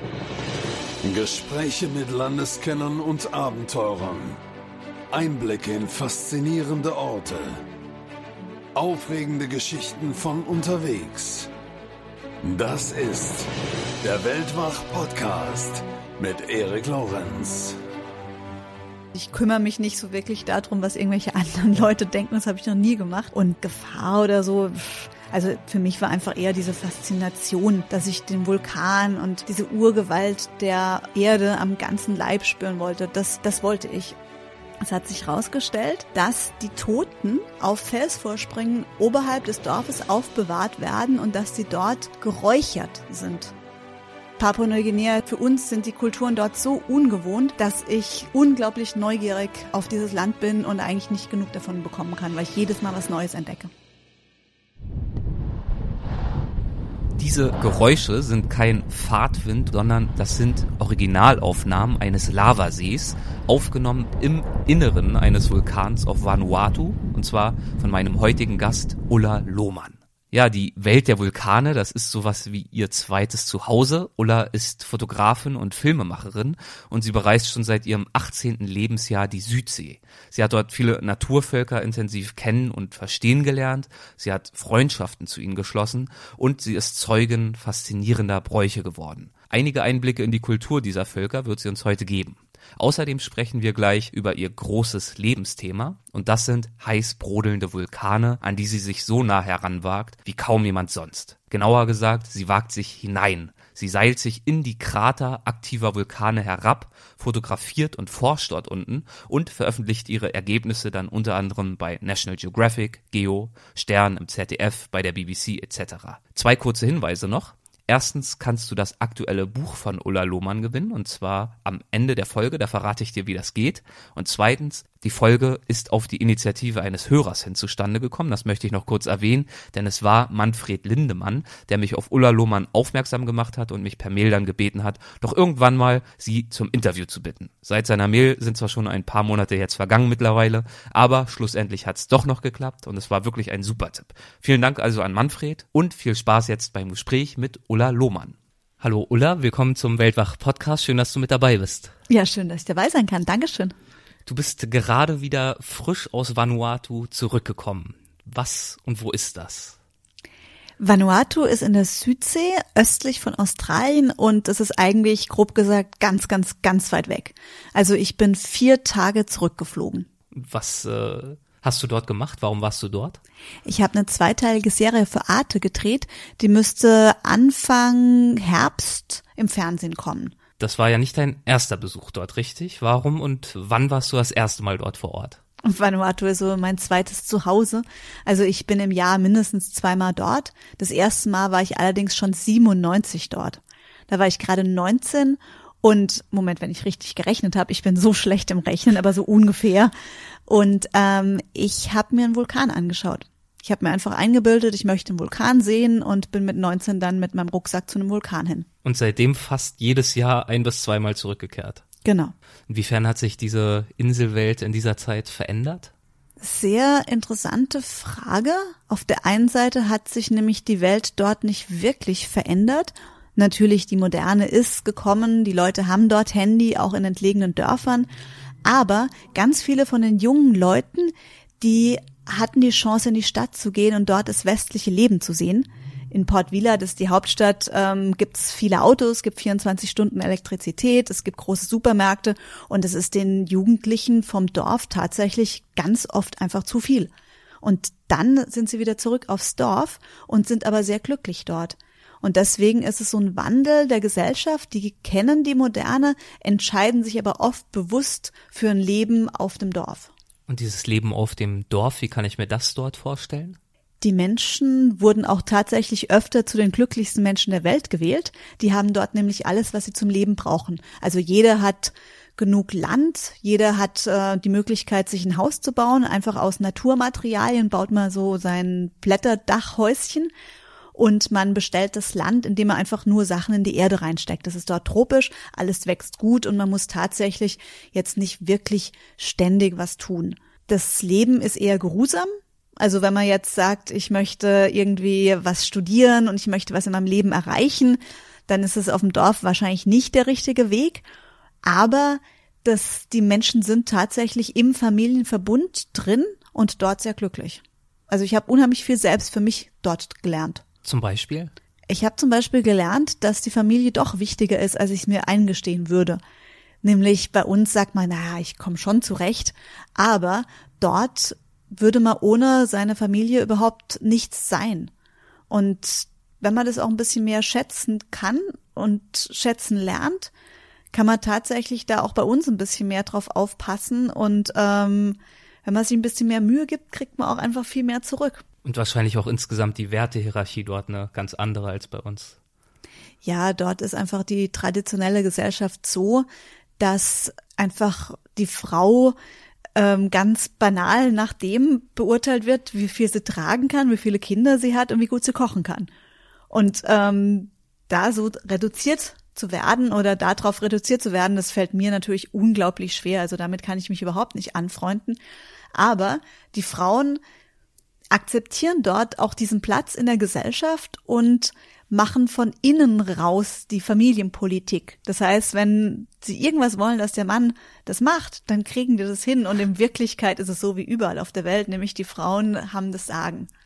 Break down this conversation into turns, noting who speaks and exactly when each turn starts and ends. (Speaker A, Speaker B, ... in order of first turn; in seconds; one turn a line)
Speaker A: 1.0-4.4
Speaker A: 5.1-7.6
Speaker A: 8.8-11.5
Speaker A: 12.4-13.5
Speaker A: 14.0-17.8
Speaker B: 19.1-34.2
Speaker B: 34.8-43.5
Speaker B: 44.4-53.7
Speaker C: 57.2-151.9
Speaker B: 152.1-153.7
Speaker C: 154.3-159.8
Speaker B: 160.8-170.1
Speaker C: 170.3-173.2
Speaker B: 173.7-180.3
Speaker C: 180.6-185.4
Speaker B: 185.6-199.9
Speaker B: 200.5-208.7
Speaker C: 208.8-211.8
Speaker B: 212.0-212.3
Speaker C: 212.7-215.9
Speaker B: 216.4-228.1
Speaker B: 228.7-247.1
Speaker B: 247.6-260.1
Speaker C: 260.5-263.6
Speaker B: 264.0-280.3
Speaker B: 280.9-301.0
Speaker B: 301.6-310.6
Speaker C: 310.8-311.5
Speaker B: 311.9-316.2
Speaker B: 316.8-324.9
Speaker B: 325.5-330.3
Speaker B: 330.9-338.4
Speaker C: 338.6-342.4
Speaker B: 343.2-346.3
Speaker B: 346.8-349.2
Speaker B: 349.8-355.9
Speaker B: 356.5-365.2
Speaker B: 365.7-367.2
Speaker B: 368.1-383.5